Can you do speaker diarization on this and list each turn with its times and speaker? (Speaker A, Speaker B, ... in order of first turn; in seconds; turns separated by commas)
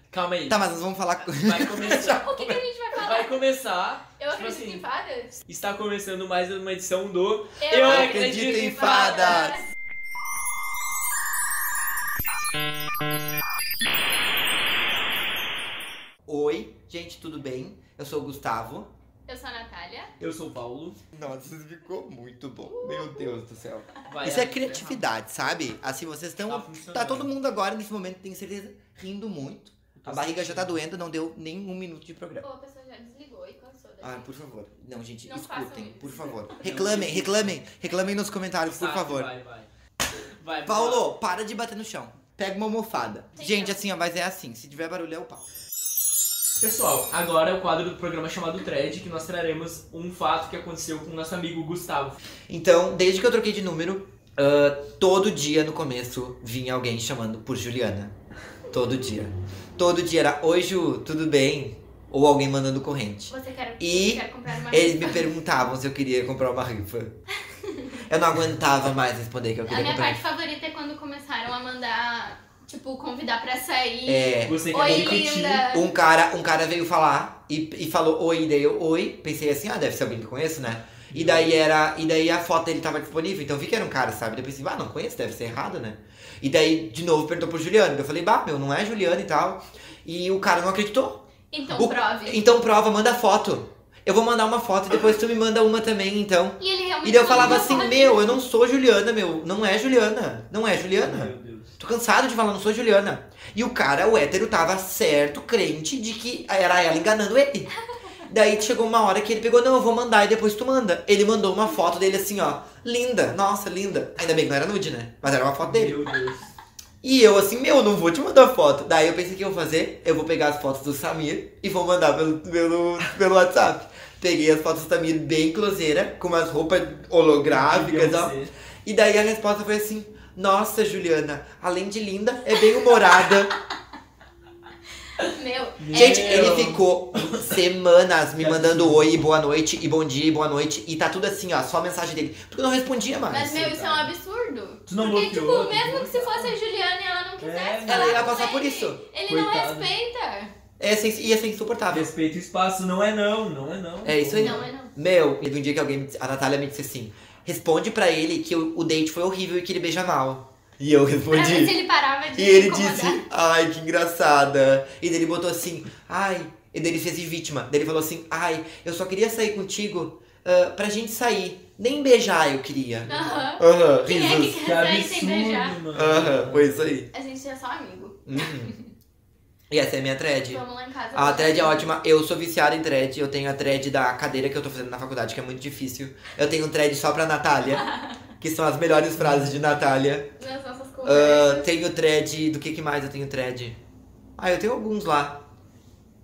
Speaker A: 0.1-0.6, Speaker B: 0.5-2.2, Speaker A: 1.2-4.8, Speaker C: 1.9-3.4, Speaker C: 4.2-5.4, Speaker A: 5.5-8.9, Speaker C: 7.6-9.7, Speaker B: 7.8-9.6, Speaker B: 16.3-18.9, Speaker C: 19.3-20.1, Speaker A: 20.2-21.0, Speaker B: 21.1-32.5, Speaker C: 22.6-23.4, Speaker A: 24.1-25.1, Speaker A: 26.5-27.3, Speaker A: 30.0-30.8, Speaker C: 32.4-34.3, Speaker B: 34.0-39.3, Speaker C: 35.2-37.1, Speaker A: 36.6-37.6, Speaker A: 38.7-41.1, Speaker B: 40.7-45.5, Speaker C: 43.4-43.9, Speaker A: 46.6-52.2, Speaker B: 52.5-58.1, Speaker B: 58.7-67.2, Speaker C: 58.7-59.1, Speaker C: 63.3-65.6, Speaker C: 67.6-68.0, Speaker B: 68.0-70.2, Speaker C: 69.7-75.9, Speaker B: 74.0-107.7, Speaker A: 74.4-75.6, Speaker A: 81.1-81.6, Speaker C: 91.5-92.5, Speaker C: 96.6-98.4, Speaker A: 97.3-97.9, Speaker A: 100.9-101.7, Speaker B: 108.2-116.0, Speaker A: 115.6-116.5, Speaker B: 117.0-133.5, Speaker A: 127.4-128.5, Speaker C: 132.7-133.5, Speaker C: 135.2-136.6, Speaker A: 135.8-137.5, Speaker B: 135.9-144.1, Speaker A: 138.4-139.1, Speaker C: 143.3-150.5, Speaker A: 144.9-146.5, Speaker A: 147.4-148.5, Speaker B: 147.9-149.0, Speaker A: 149.3-149.9, Speaker B: 150.8-152.1, Speaker A: 151.9-154.7, Speaker B: 154.0-161.8, Speaker C: 154.4-154.9, Speaker C: 161.3-163.2, Speaker B: 162.3-174.6, Speaker A: 173.1-173.4, Speaker C: 173.1-175.8, Speaker A: 174.6-176.7, Speaker B: 175.9-177.1, Speaker C: 177.1-178.9, Speaker B: 178.3-178.7, Speaker B: 179.7-180.6, Speaker C: 180.4-181.9, Speaker B: 181.1-187.8, Speaker C: 187.8-188.1, Speaker B: 188.4-190.3, Speaker A: 189.2-189.6, Speaker C: 190.4-191.7, Speaker B: 191.1-193.8, Speaker B: 194.4-195.4